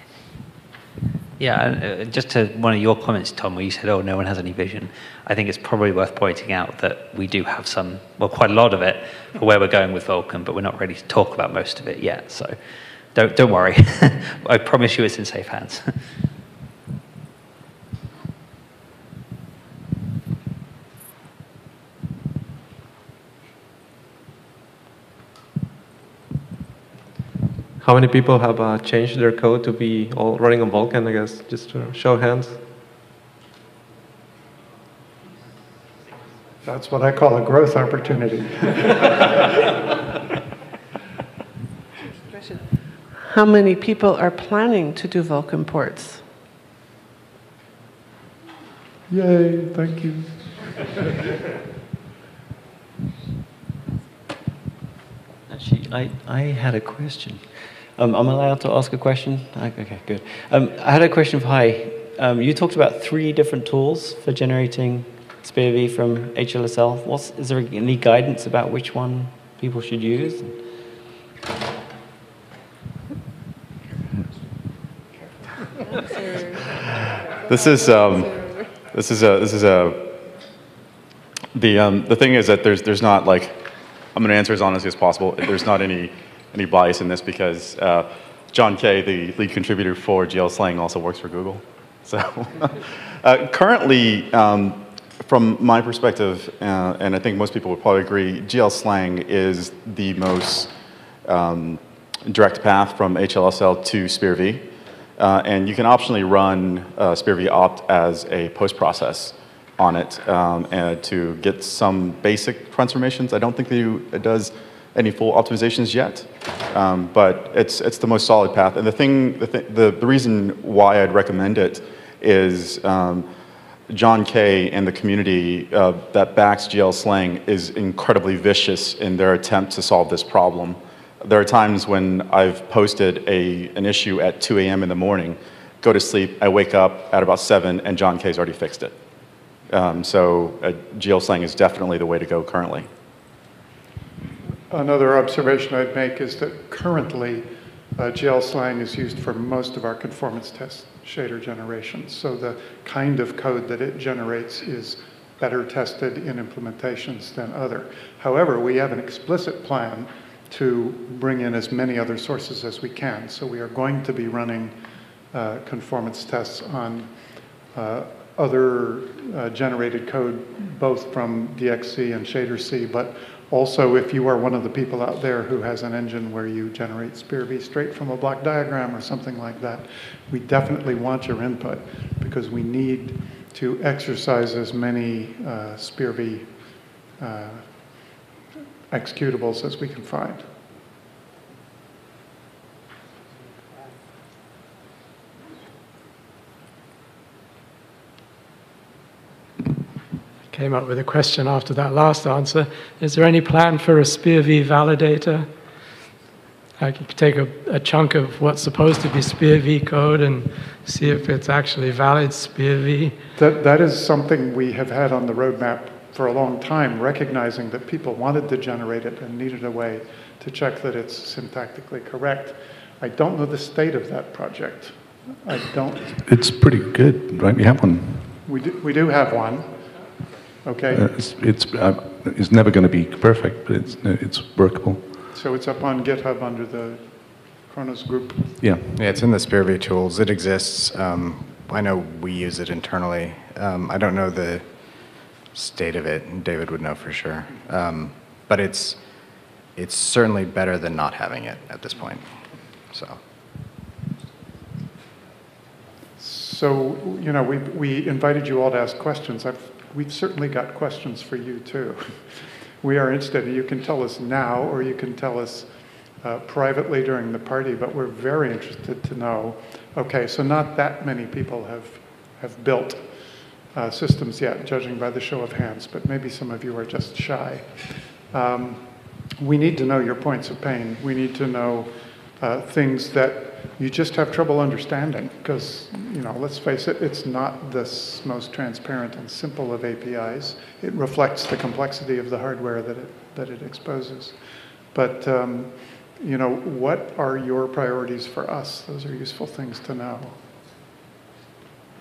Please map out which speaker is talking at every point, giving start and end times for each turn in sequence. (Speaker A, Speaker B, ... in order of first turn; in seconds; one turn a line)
Speaker A: 1.4-12.6
Speaker A: 13.1-15.9
Speaker B: 27.8-32.6
Speaker C: 36.6-39.3
Speaker D: 43.2-46.3
Speaker C: 49.1-50.6
Speaker E: 55.5-57.4
Speaker E: 58.0-70.6
Speaker F: 77.5-80.3
Speaker F: 81.5-100.7
Speaker F: 101.2-123.3
Speaker F: 123.9-139.0
Speaker F: 139.7-142.9
Speaker C: 144.7-164.8
Speaker C: 165.3-167.1
Speaker C: 167.7-186.5
Speaker C: 187.2-187.7
Speaker C: 188.9-190.5
Speaker G: 200.5-205.5
Speaker G: 206.8-213.2
Speaker C: 213.4-226.2
Speaker H: 226.2-228.4
Speaker C: 228.4-229.7
Speaker C: 230.6-231.0
Speaker H: 230.9-235.0
Speaker C: 235.3-238.6
Speaker H: 238.6-239.0
Speaker I: 238.9-253.2
Speaker C: 256.2-265.7
Speaker C: 266.2-273.1
Speaker C: 273.7-294.4
Speaker C: 294.9-300.4